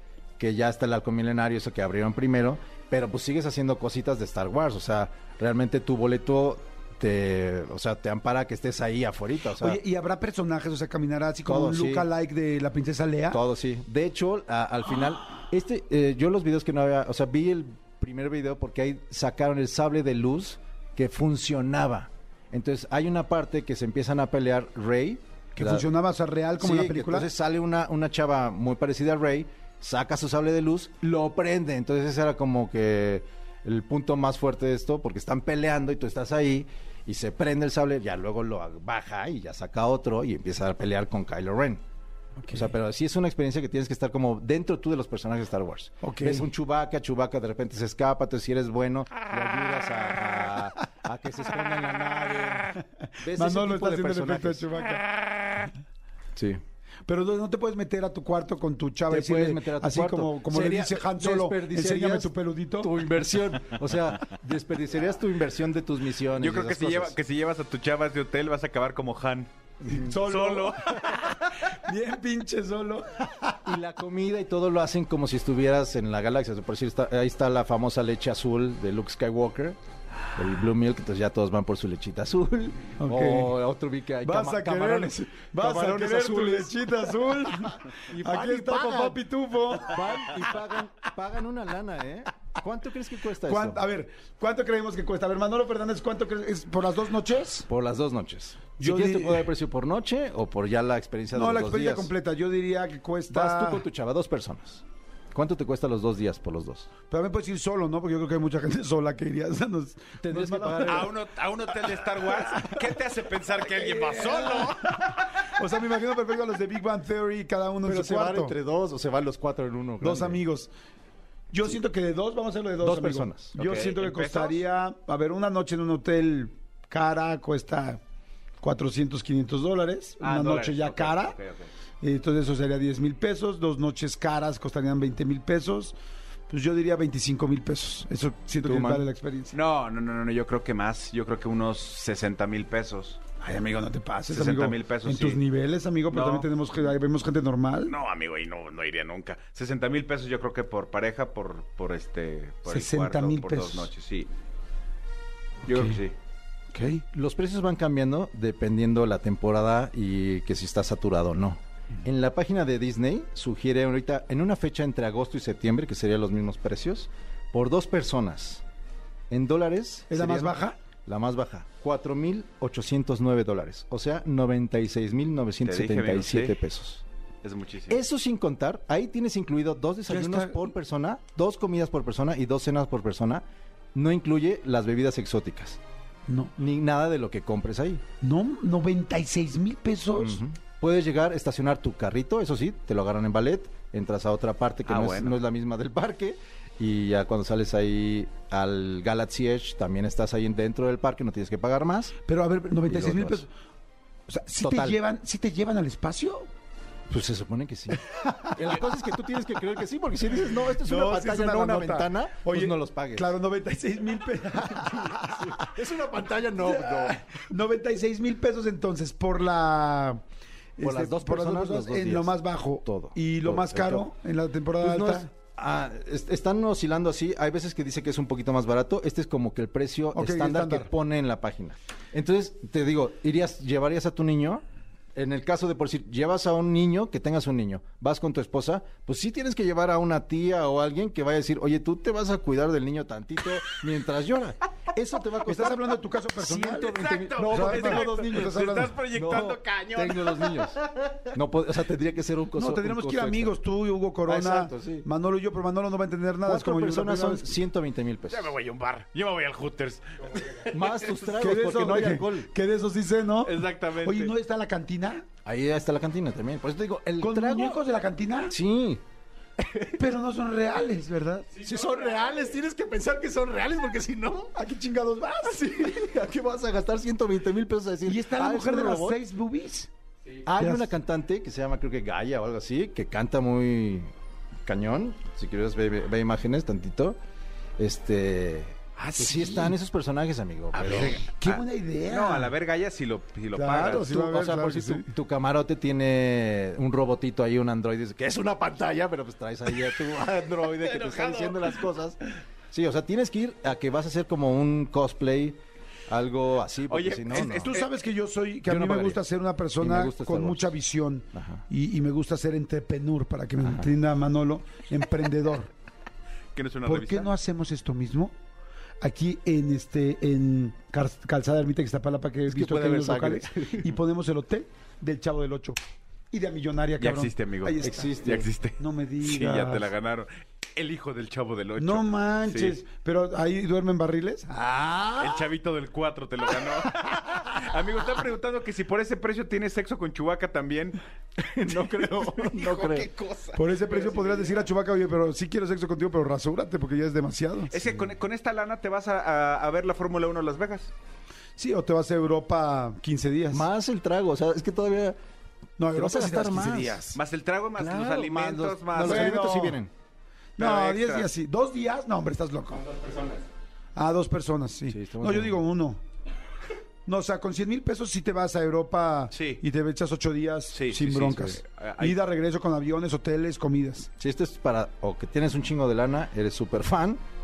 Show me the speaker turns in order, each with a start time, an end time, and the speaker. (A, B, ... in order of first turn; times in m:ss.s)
0:00.4-0:09.8 A
0:09.6-0:13.4 B
0:11.5-0:12.1 A
0:13.3-0:25.9 A
0:25.6-0:27.3 B
0:26.6-0:41.8 A
0:42.4-0:42.7 B
0:42.5-0:54.7 A
0:46.0-0:46.5 B
0:52.8-0:55.7 B
0:56.4-0:56.6 A
0:57.1-1:03.0 B
0:59.1-1:07.2 A
1:06.3-1:09.5 C
1:09.8-1:13.7 B
1:10.1-1:11.6 C
1:13.7-1:19.8 A
1:20.4-1:29.2 A
1:23.0-1:23.5 B
1:24.2-1:30.5 B
1:29.8-1:33.8 A
1:33.4-1:37.7 B
1:37.7-1:42.1 A
1:38.8-1:39.5 B
1:41.3-1:43.8 B
1:43.3-1:46.9 A
1:47.1-1:51.1 B
1:50.2-1:51.2 A
1:50.8-1:55.4 C
1:52.0-1:52.8 B
1:53.6-1:58.6 B
1:57.9-2:00.4 A
2:00.0-2:00.7 B
2:01.5-2:08.0 B
2:02.8-2:03.5 A
2:03.6-2:04.6 C
2:08.6-2:11.4 B
2:10.2-2:11.7 C
2:12.0-2:16.0 B
2:16.5-2:19.6 B
2:18.6-2:19.0 A
2:19.5-2:23.2 C
2:23.4-2:27.9 B
2:24.3-2:25.4 C
2:26.1-2:26.5 C
2:27.8-2:34.3 C
2:32.7-2:33.9 B
2:35.7-2:36.2 C
2:36.7-2:37.0 B
2:37.1-2:48.6 A
2:49.3-2:57.0 A
2:50.1-2:50.8 B
2:55.6-2:56.6 C
2:57.4-2:58.0 C
2:57.9-3:03.4 A
3:00.1-3:00.7 B
3:04.0-3:05.8 A
3:06.3-3:06.6 B
3:06.6-3:08.0 A
3:08.2-3:10.4 B
3:10.2-3:22.1 A
3:14.9-3:15.4 C
3:22.2-3:23.5 B
3:22.9-3:23.4 A
3:24.3-3:26.5 B
3:24.6-3:25.0 A
3:27.1-3:33.4 A
3:28.0-3:28.6 B
3:30.7-3:35.7 B
3:34.6-3:37.2 A
3:36.6-3:40.2 B
3:40.8-3:45.3 B
3:40.8-3:44.1 A
3:44.8-3:54.6 A
3:50.1-3:50.9 B
3:55.2-4:13.6 A
4:05.4-4:09.0 B
4:06.8-4:11.2 C
4:12.5-4:17.6 B
4:14.2-4:15.1 A
4:16.4-4:18.5 A
4:18.3-4:21.2 C
4:20.7-4:22.5 A
4:21.3-4:25.3 B
4:23.4-4:24.3 C
4:25.4-4:27.8 A
4:27.2-4:28.6 B
4:28.5-4:29.0 A
4:29.6-4:30.0 A
4:29.8-4:31.6 B
4:31.6-4:34.5 A
4:31.6-4:32.3 C
4:34.5-4:35.6 B
4:35.4-4:39.2 A
4:38.0-4:39.9 B
4:40.4-4:44.1 A
4:40.6-4:40.9 B
4:44.7-4:47.2 A
4:47.8-4:51.2 A
4:49.0-4:49.7 C
4:50.7-4:54.1 C
4:50.9-4:52.5 B
4:53.6-4:55.1 B
4:53.8-5:02.2 A
5:00.6-5:01.8 C
5:02.7-5:07.8 A
5:06.9-5:07.9 C
5:07.6-5:15.7 B
5:08.7-5:09.2 A
5:09.8-5:10.7 A
5:11.3-5:11.6 A
5:13.6-5:13.9 A
5:16.6-5:17.3 C
5:16.8-5:18.3 B
5:19.0-5:25.8 B
5:22.5-5:24.0 A
5:26.3-5:29.9 B
5:27.0-5:32.8 C
5:27.8-5:28.5 A
5:31.8-5:34.5 B
5:34.6-5:35.5 A
5:35.2-5:41.0 C
5:41.4-5:43.1 A
5:41.9-5:44.6 C
5:43.6-5:47.8 B
5:47.7-5:50.9 C
5:51.6-5:53.7 B
5:53.5-5:55.2 A
5:55.8-5:57.2 B
5:55.9-5:57.1 A
5:57.1-5:59.3 C
5:57.8-5:59.9 A
5:59.0-5:59.8 B
6:00.6-6:02.9 B
6:00.6-6:01.3 C
6:02.8-6:03.4 C
6:04.0-6:06.0 B
6:04.9-6:05.6 A
6:07.1-6:14.1 B
6:09.3-6:09.6 C
6:10.7-6:12.2 C
6:11.2-6:11.6 A
6:14.2-6:17.2 A